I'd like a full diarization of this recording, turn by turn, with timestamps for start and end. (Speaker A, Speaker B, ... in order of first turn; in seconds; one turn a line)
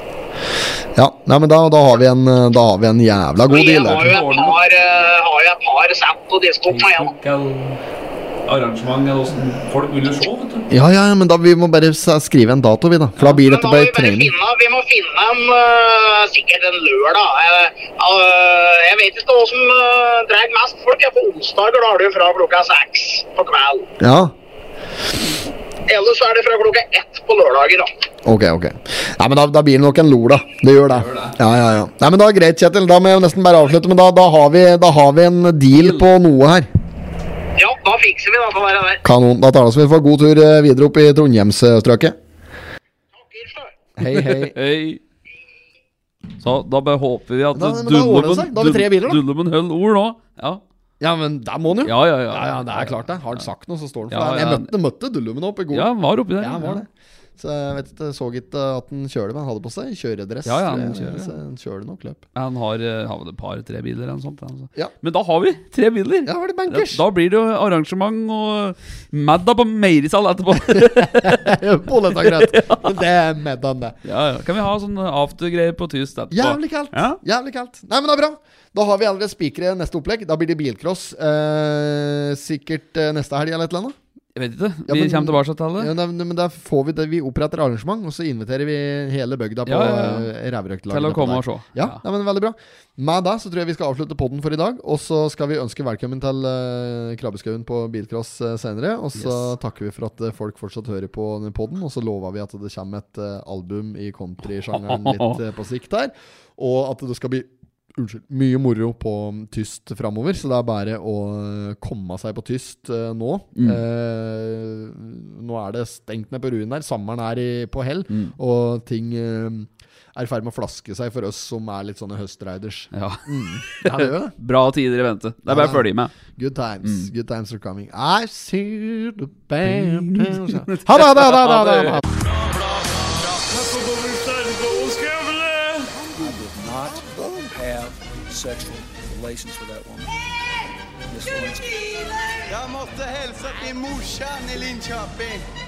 Speaker A: 0.9-4.1
Speaker B: 3.5-7.1
Speaker C: 3.7-4.6
Speaker C: 6.7-7.8
Speaker C: 8.5-10.7
Speaker A: 10.7-14.3
Speaker B: 13.3-23.9
Speaker A: 24.0-24.3
Speaker B: 25.9-27.9
Speaker A: 28.2-36.7
Speaker C: 30.9-31.4
Speaker C: 35.8-36.0
Speaker B: 37.6-39.0
Speaker A: 39.0-42.2
Speaker B: 43.1-43.8
Speaker A: 44.0-44.5
Speaker C: 44.1-45.0
Speaker C: 46.4-50.6
Speaker A: 47.5-49.2
Speaker A: 51.0-62.2
Speaker C: 51.9-53.0
Speaker C: 54.1-54.7
Speaker C: 55.7-56.8
Speaker C: 60.5-61.3
Speaker C: 62.4-71.5
Speaker A: 66.2-67.0
Speaker A: 70.7-74.0
Speaker C: 72.2-72.9
Speaker C: 74.0-77.2
Speaker A: 76.3-84.0
Speaker C: 84.4-85.9
Speaker A: 84.9-124.3
Speaker C: 89.7-90.3
Speaker C: 90.9-92.0
Speaker C: 99.2-99.5
Speaker C: 104.7-105.4
Speaker C: 118.1-118.3
Speaker C: 122.9-126.2
Speaker A: 125.5-132.1
Speaker C: 126.8-127.1
Speaker C: 129.6-132.0
Speaker D: 132.1-136.0
Speaker A: 135.9-137.6
Speaker E: 136.3-137.0
Speaker E: 137.6-140.1
Speaker E: 141.1-141.7
Speaker D: 142.4-145.4